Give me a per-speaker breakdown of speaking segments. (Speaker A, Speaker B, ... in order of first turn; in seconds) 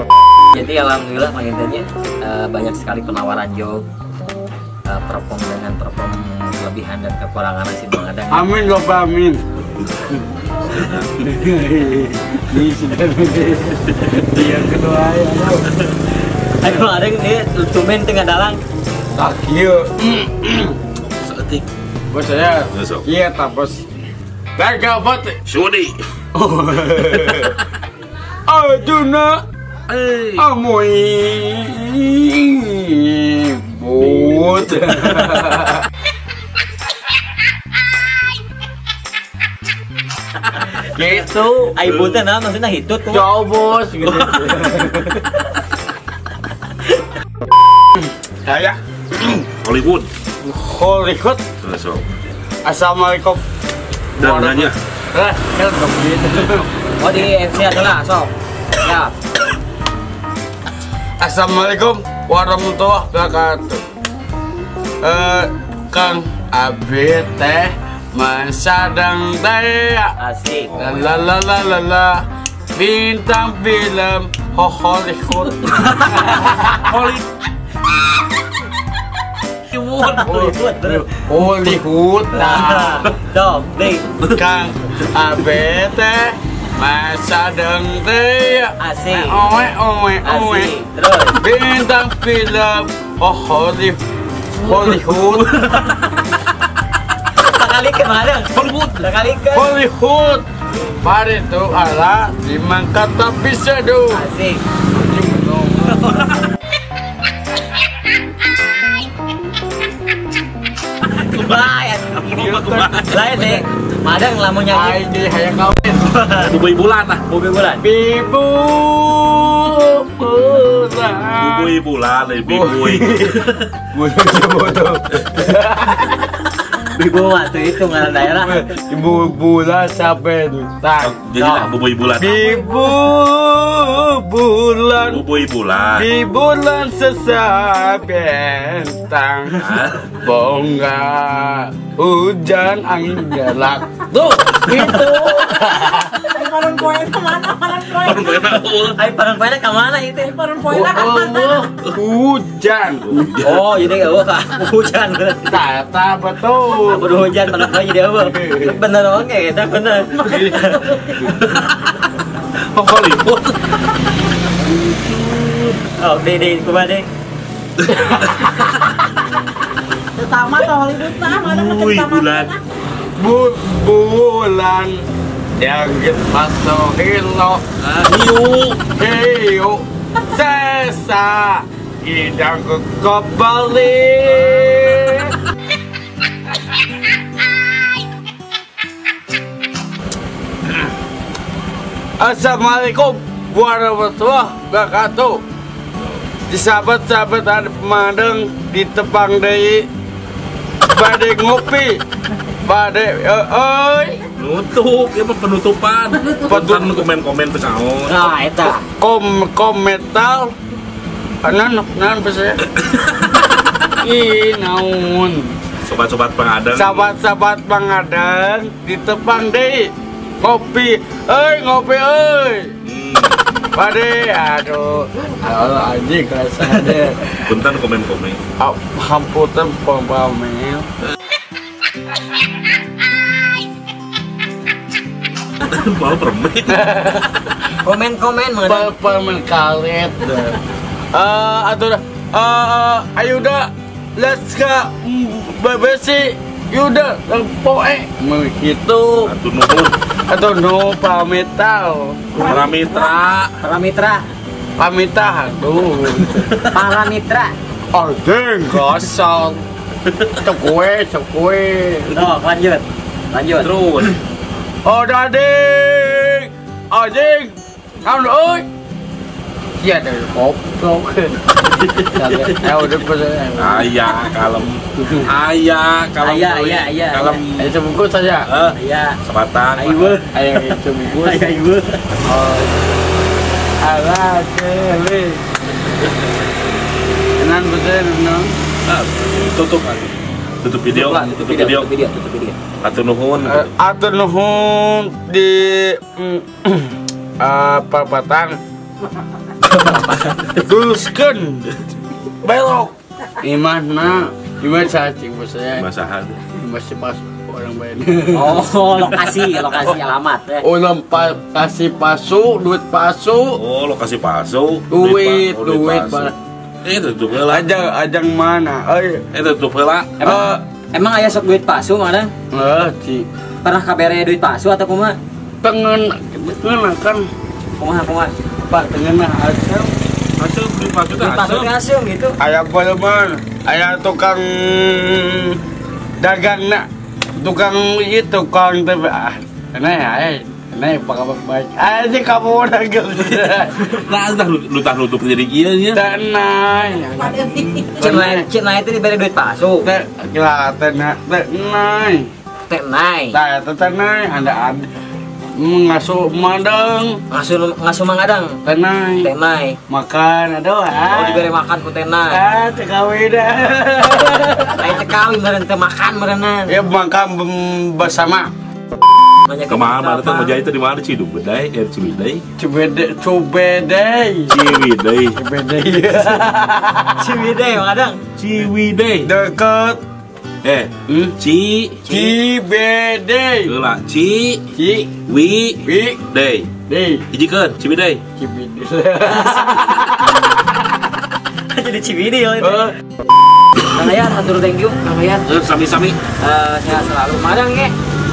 Speaker A: 0.5-3.9, 4.9-8.5, 16.6-18.6, 41.7-43.3, 57.0-59.1, 70.2-70.7, 80.0-81.1, 82.3-84.1, 88.8-89.5, 90.2-91.4, 97.4-99.7, 104.1-104.6, 105.9-106.3, 111.0-112.3, 113.0-115.0, 116.0-116.5, 117.3-117.8, 126.8-128.7, 131.4-131.7, 148.9-150.8, 153.4-155.6, 156.8-161.3, 165.9-167.1, 208.1-208.8, 237.8-238.9, 253.6-254.2, 256.5-257.5, 262.1-263.7, 271.7-272.6, 276.2-277.4, 278.8-279.2, 279.8-282.0, 290.9-292.6, 299.6-300.6, 308.3-310.6, 320.2-322.3, 323.6-325.2, 327.8-328.3, 331.2-332.4, 348.0-349.9, 352.7-353.4, 357.3-358.6, 359.2-359.8, 361.1-362.4, 364.8-366.8, 369.4-370.6, 377.2-378.2, 382.1-382.4, 389.3-390.1, 391.7-392.9, 393.9-395.5, 396.4-397.9
Speaker B: 8.3-9.4, 11.2-15.7, 19.2-20.8, 22.1-23.9, 24.6-25.4, 26.3-27.6, 28.5-29.4, 30.4-35.9, 40.8-41.8, 43.1-45.3, 48.0-49.5, 50.4-51.4, 52.6-53.4, 54.2-56.7, 61.2-63.8, 65.0-70.2, 70.8-76.9, 80.2-83.1, 84.3-90.7, 91.4-94.0, 94.6-95.6, 99.5-104.2, 104.9-106.2, 112.3-113.0, 114.7-116.1, 117.8-121.7, 122.5-126.3, 128.2-131.2, 132.2-135.2, 136.0-146.3, 150.6-153.3, 155.5-157.1, 158.2-158.8, 160.2-160.6, 173.2-175.0, 175.6-177.6, 178.9-185.3, 192.2-195.4, 196.5-199.9, 200.9-202.0, 202.6-204.2, 206.5-207.1, 208.9-210.5, 211.4-212.6, 214.0-215.5, 216.7-222.7, 223.7-227.6, 228.6-230.9, 236.7-237.4, 238.7-240.6, 241.1-249.3, 250.3-252.3, 254.8-256.5, 257.9-259.6, 260.4-262.3, 264.9-268.6, 269.8-271.4, 272.1-273.9, 275.0-275.3, 277.6-278.5, 280.3-281.6, 282.2-282.8, 283.8-285.4, 287.4-288.5, 293.4-298.6, 300.6-301.8, 302.4-305.9, 306.5-308.7, 310.6-313.6, 314.9-316.3, 317.4-319.2, 320.2-320.6, 322.5-323.3, 325.6-327.3, 328.7-329.9, 332.4-335.6, 336.2-336.9, 337.4-343.9, 345.9-348.5, 349.8-352.3, 353.3-354.9, 355.6-357.2, 358.6-359.3, 359.9-361.5, 362.3-365.0, 366.7-368.5, 372.6-374.6, 375.4-377.4, 379.2-380.0, 381.1-381.4, 382.1-383.7, 384.8-385.1, 385.9-386.2, 386.9-387.3, 388.4-390.5, 392.6-392.9
Speaker C: 10.7-11.3, 21.1-21.7, 22.7-23.1, 25.5-26.0, 29.9-30.5, 34.0-35.6, 41.9-42.1, 44.1-44.5, 49.6-50.1, 51.6-52.1, 54.2-54.8, 70.7-71.1, 76.8-77.2, 79.7-80.5, 95.3-96.2, 98.5-99.1, 112.1-113.6, 116.4-117.3, 121.4-123.7, 131.0-132.5, 135.1-136.1, 139.5-140.1, 147.7-149.0, 153.0-153.9, 161.2-162.0, 162.6-163.6, 164.7-165.8, 167.8-169.0, 171.0-172.6, 177.8-178.8, 184.3-185.2, 196.0-196.2, 204.4-208.4, 215.8-217.1, 222.8-223.4, 227.4-228.4, 235.6-236.8, 249.2-250.0, 252.3-253.5, 263.6-264.2, 273.6-277.7, 278.5-280.2, 288.9-291.9, 292.8-293.7, 305.8-306.4, 313.5-317.7, 319.3-320.2, 330.4-331.7, 343.7-346.0, 369.7-372.4, 374.5-375.4, 378.4-379.3, 380.6-382.1, 383.7-384.6, 385.3-386.7, 387.3-388.2, 395.5-396.2
Speaker D: 146.4-148.1, 150.4-151.5, 170.2-172.4